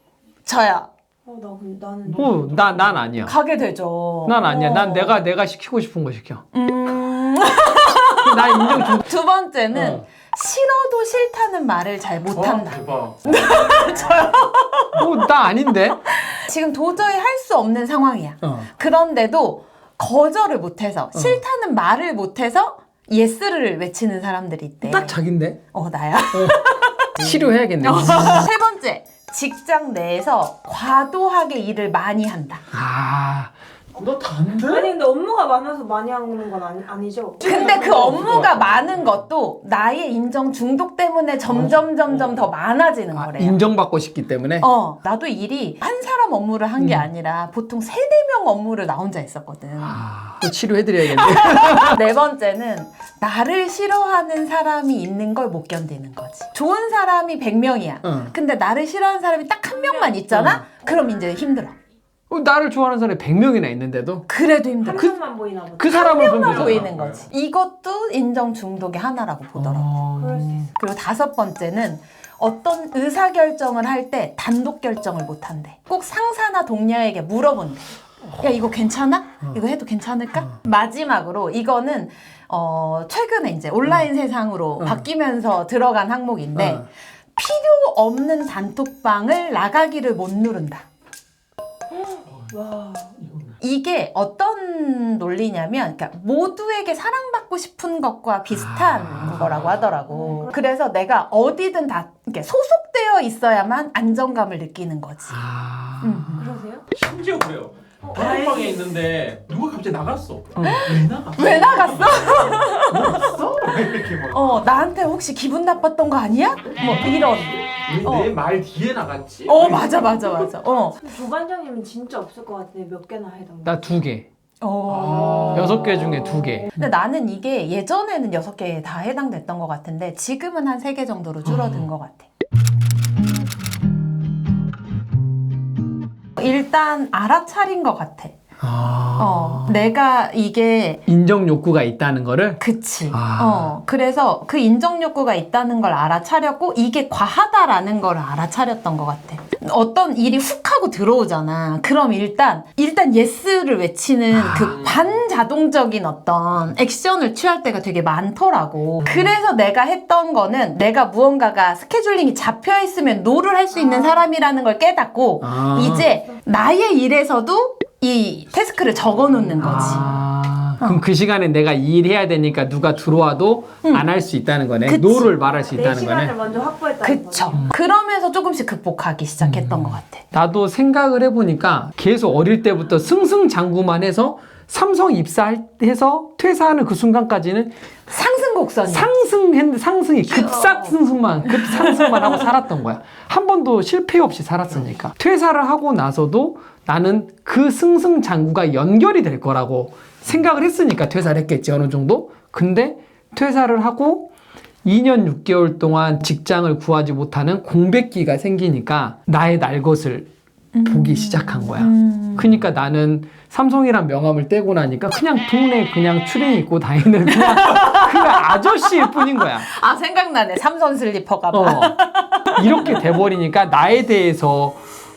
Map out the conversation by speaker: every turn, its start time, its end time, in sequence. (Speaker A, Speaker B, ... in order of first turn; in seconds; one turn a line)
Speaker A: 0.5-0.9
Speaker B: 1.3-3.0
Speaker C: 2.1-3.3
Speaker A: 3.2-5.2
Speaker C: 4.3-6.4
Speaker A: 6.5-15.1
Speaker C: 8.2-9.1
Speaker C: 9.7-10.0
Speaker D: 12.4-13.2
Speaker C: 14.9-16.0
Speaker A: 16.2-25.2
Speaker C: 18.4-18.7
Speaker C: 21.1-21.4
Speaker C: 24.8-25.6
Speaker A: 25.7-32.6
Speaker C: 26.3-28.5
Speaker C: 32.7-34.6
Speaker D: 34.4-34.8
Speaker B: 34.6-38.3
Speaker A: 37.4-43.6
Speaker D: 37.9-38.6
Speaker C: 41.5-41.8
Speaker C: 43.1-44.7
Speaker A: 44.6-50.0
Speaker C: 46.8-47.1
Speaker C: 49.8-52.0
Speaker A: 51.2-61.7
Speaker C: 58.0-58.3
Speaker B: 59.8-60.2
Speaker C: 60.3-60.6
Speaker C: 62.3-64.3
Speaker A: 64.3-65.2
Speaker B: 64.8-66.8
Speaker C: 65.8-67.2
Speaker A: 65.8-69.9
Speaker C: 69.6-70.7
Speaker B: 70.2-70.7
Speaker A: 70.8-90.9
Speaker C: 84.8-85.0
Speaker C: 86.6-86.8
Speaker B: 92.0-93.4
Speaker A: 93.6-105.4
Speaker C: 98.5-99.8
Speaker B: 100.1-100.5
Speaker C: 105.3-106.5
Speaker A: 106.0-106.5
Speaker B: 106.4-106.9
Speaker D: 107.0-114.5
Speaker B: 108.0-109.0
Speaker C: 110.5-111.8
Speaker A: 110.6-113.3
Speaker C: 113.1-113.4
Speaker A: 114.1-118.4
Speaker D: 117.9-120.0
Speaker A: 119.5-121.0
Speaker B: 120.7-123.9
Speaker C: 123.7-124.3
Speaker A: 124.6-132.3
Speaker D: 125.2-125.6
Speaker C: 125.5-126.9
Speaker C: 131.4-131.9
Speaker A: 136.4-138.4
Speaker C: 138.6-139.9
Speaker A: 139.2-141.0
Speaker C: 141.1-143.7
Speaker A: 142.6-170.1
Speaker C: 154.3-155.0
Speaker C: 159.0-159.3
Speaker B: 163.7-164.2
Speaker C: 165.4-166.1
Speaker C: 169.6-176.3
Speaker A: 174.8-175.3
Speaker B: 175.4-177.7
Speaker A: 177.0-180.2
Speaker C: 179.4-187.7
Speaker A: 188.1-189.1
Speaker C: 188.9-204.3
Speaker A: 190.3-190.9
Speaker A: 191.5-192.5
Speaker C: 204.8-210.3
Speaker A: 210.7-212.5
Speaker C: 210.8-219.7
Speaker A: 217.3-223.0
Speaker C: 221.5-224.8